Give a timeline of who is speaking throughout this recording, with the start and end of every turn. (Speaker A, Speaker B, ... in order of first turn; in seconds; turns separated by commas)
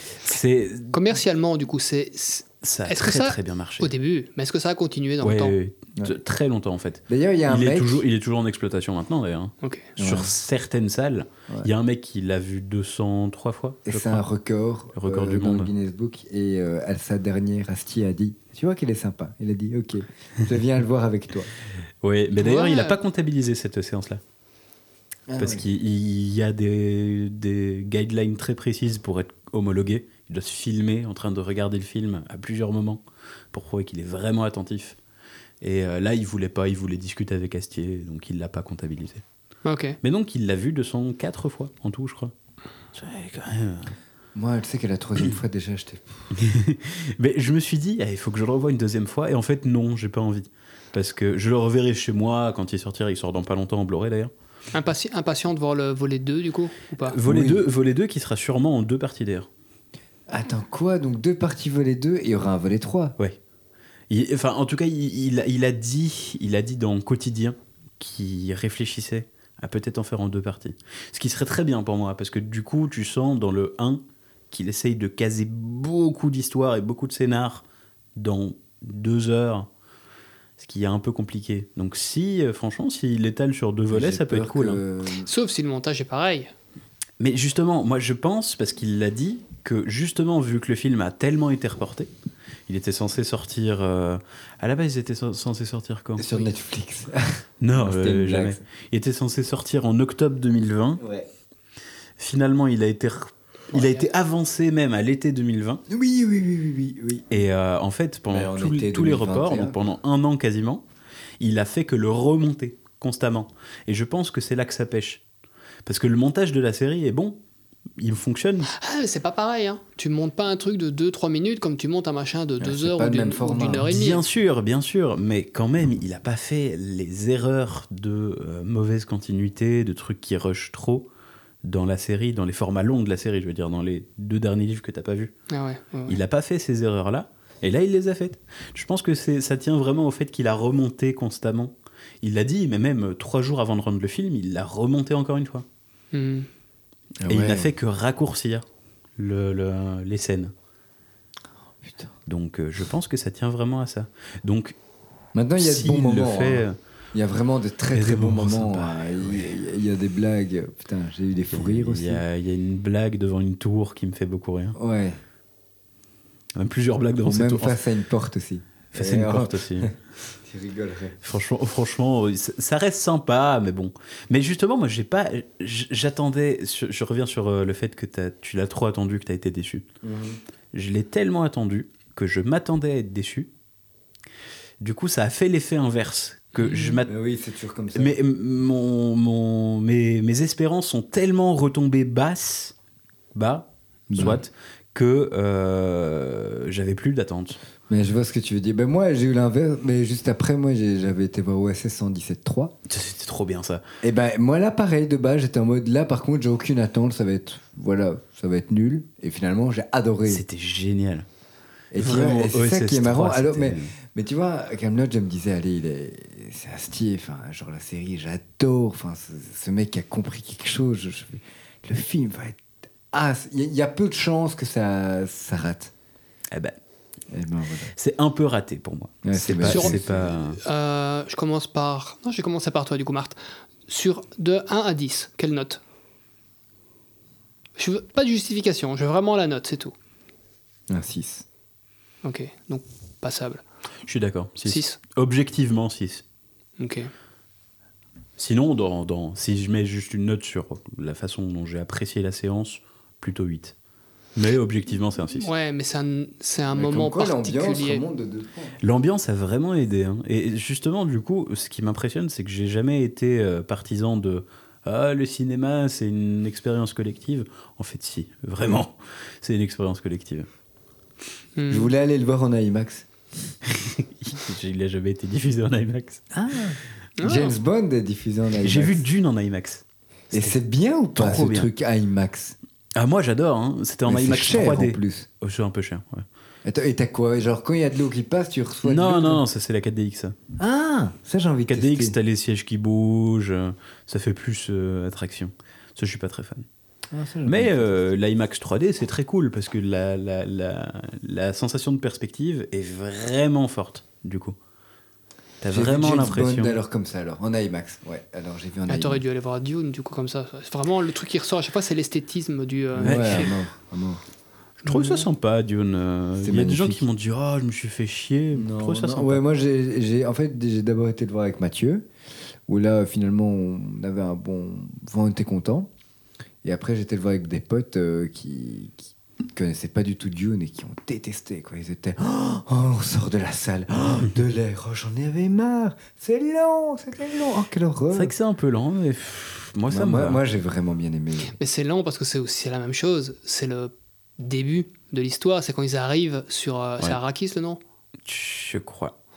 Speaker A: 0.2-0.9, Speaker B: 0.9-5.6, Speaker A: 2.6-3.9, Speaker A: 5.2-14.2, Speaker C: 7.1-8.0, Speaker B: 9.6-9.9, Speaker C: 10.0-10.3, Speaker C: 13.9-21.5, Speaker A: 14.9-15.7, Speaker A: 22.0-24.2, Speaker B: 22.4-23.0, Speaker C: 25.3-25.6, Speaker A: 25.4-35.0, Speaker A: 35.6-39.2, Speaker B: 39.6-40.0, Speaker A: 40.0-42.3, Speaker A: 42.9-43.9, Speaker C: 44.4-46.4, Speaker A: 46.3-54.3, Speaker B: 54.7-57.2, Speaker A: 57.0-59.5, Speaker C: 57.2-57.7, Speaker C: 60.3-63.1, Speaker A: 64.1-77.6, Speaker A: 78.2-79.7, Speaker A: 80.6-84.8, Speaker C: 83.9-85.3, Speaker B: 85.2-86.5, Speaker A: 87.2-92.1, Speaker A: 92.7-96.3, Speaker C: 96.2-98.6, Speaker A: 97.6-101.0, Speaker C: 101.0-101.3, Speaker A: 102.2-105.8, Speaker B: 103.7-104.1, Speaker C: 105.9-107.3, Speaker A: 107.3-110.8, Speaker C: 108.3-109.8, Speaker A: 111.4-115.2, Speaker A: 115.9-117.4, Speaker A: 118.0-118.7, Speaker B: 118.8-124.2, Speaker C: 122.6-123.9, Speaker A: 123.7-131.1, Speaker A: 131.6-135.3, Speaker B: 135.5-136.2, Speaker A: 136.1-145.6, Speaker B: 146.1-146.5, Speaker C: 147.2-147.7, Speaker A: 147.3-148.6, Speaker A: 149.2-150.5, Speaker C: 151.8-152.1, Speaker A: 152.3-154.8, Speaker C: 155.3-162.2, Speaker A: 155.6-156.8, Speaker A: 157.9-159.5, Speaker A: 161.5-164.8, Speaker C: 164.8-165.2, Speaker A: 166.6-167.8, Speaker C: 167.2-171.2, Speaker A: 168.9-169.9, Speaker A: 171.2-179.9, Speaker C: 180.0-180.4, Speaker A: 180.7-183.5, Speaker A: 184.8-187.1, Speaker B: 186.6-187.0, Speaker C: 187.0-188.2, Speaker A: 187.9-192.7, Speaker A: 193.3-197.6, Speaker C: 194.1-194.4, Speaker C: 197.9-202.7, Speaker A: 202.9-203.8, Speaker C: 204.0-210.4, Speaker A: 210.3-211.3, Speaker C: 211.9-225.9, Speaker A: 212.0-213.9, Speaker C: 227.3-227.9, Speaker A: 227.9-230.6, Speaker C: 229.2-230.3, Speaker B: 229.7-235.8, Speaker B: 237.8-239.9, Speaker C: 240.9-241.4, Speaker B: 242.2-243.6, Speaker A: 244.1-246.2, Speaker B: 244.7-245.0, Speaker B: 246.8-247.1, Speaker A: 248.4-253.7, Speaker A: 254.4-255.5, Speaker B: 255.4-258.1, Speaker C: 256.7-258.8, Speaker A: 258.8-270.5, Speaker B: 271.6-271.9, Speaker C: 271.7-273.1, Speaker A: 273.7-276.3, Speaker C: 276.3-279.0, Speaker B: 277.2-277.6, Speaker A: 278.6-280.6, Speaker C: 280.3-282.6, Speaker A: 281.1-281.7, Speaker A: 282.9-286.2, Speaker C: 284.1-285.3, Speaker C: 286.6-289.4, Speaker A: 288.8-290.4, Speaker C: 290.6-292.1, Speaker A: 291.7-296.6, Speaker C: 297.1-298.1, Speaker A: 297.4-304.6, Speaker A: 305.6-306.8, Speaker C: 305.7-309.2, Speaker B: 308.9-313.5, Speaker C: 313.0-314.2, Speaker A: 313.0-313.5, Speaker B: 314.9-315.2, Speaker A: 314.9-319.4, Speaker C: 316.4-317.0, Speaker C: 318.5-322.1, Speaker C: 322.7-325.9, Speaker C: 326.6-338.3, Speaker A: 338.1-340.4, Speaker C: 339.9-341.6, Speaker B: 341.5-347.8, Speaker A: 348.3-349.1